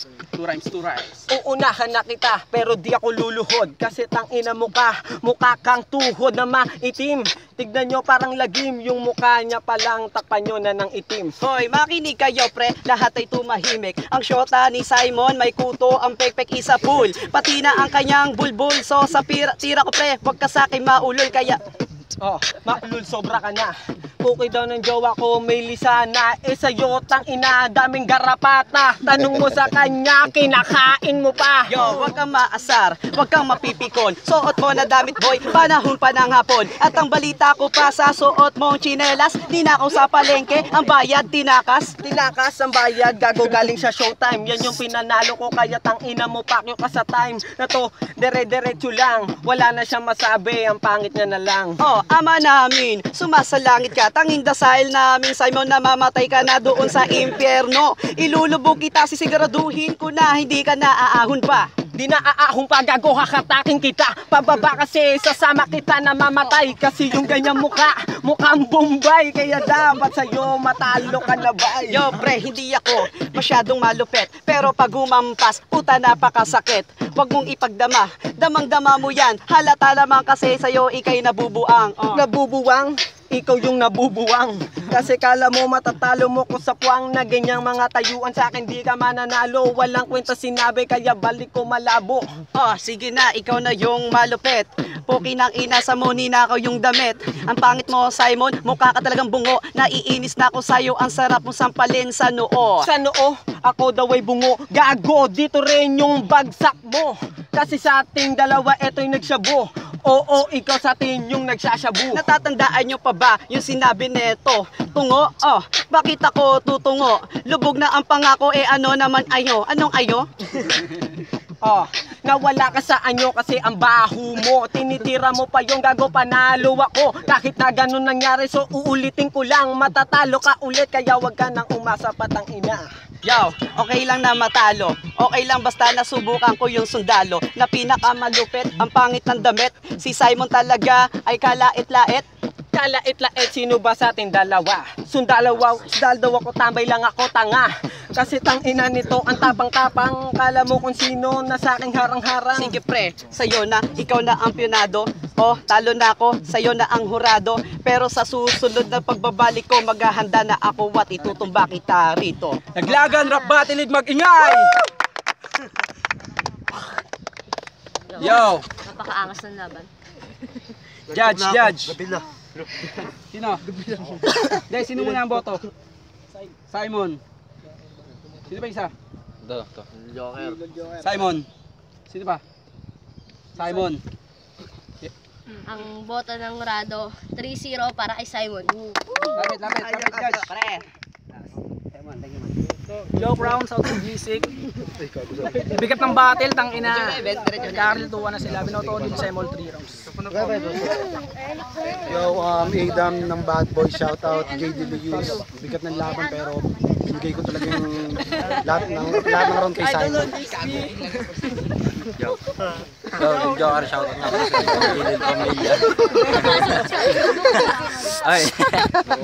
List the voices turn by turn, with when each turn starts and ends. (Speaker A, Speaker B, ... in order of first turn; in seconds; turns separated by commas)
Speaker A: 0.3-1.2, Speaker B: 1.3-11.3, Speaker C: 11.4-21.6, Speaker B: 22.2-31.7, Speaker C: 31.7-41.9, Speaker B: 42.0-51.8, Speaker C: 51.8-61.7, Speaker B: 61.9-72.2, Speaker C: 71.9-82.2, Speaker B: 82.1-92.2, Speaker C: 92.6-102.9, Speaker B: 102.8-112.2, Speaker C: 112.1-120.3, Speaker B: 121.6-132.9, Speaker C: 133.2-142.2, Speaker B: 142.7-152.7, Speaker C: 152.5-162.6, Speaker A: 162.8-164.8, Speaker D: 163.0-163.7, Speaker D: 168.1-169.9, Speaker A: 168.2-168.7, Speaker A: 171.1-171.9, Speaker E: 171.2-172.2, Speaker A: 173.3-173.6, Speaker A: 174.7-175.7, Speaker A: 176.7-177.2, Speaker A: 178.5-178.9, Speaker F: 179.4-179.8, Speaker A: 181.0-181.5, Speaker A: 182.1-182.4, Speaker A: 183.6-184.0, Speaker D: 185.7-189.2, Speaker A: 189.4-190.4, Speaker C: 189.7-190.8, Speaker G: 193.1-194.5, Speaker G: 195.7-197.2, Speaker C: 196.8-198.1, Speaker G: 197.7-200.6, Speaker E: 200.3-200.9, Speaker E: 202.1-210.3, Speaker G: 210.3-210.7, Speaker F: 213.2-216.0, Speaker F: 216.5-216.9, Speaker F: 218.2-219.0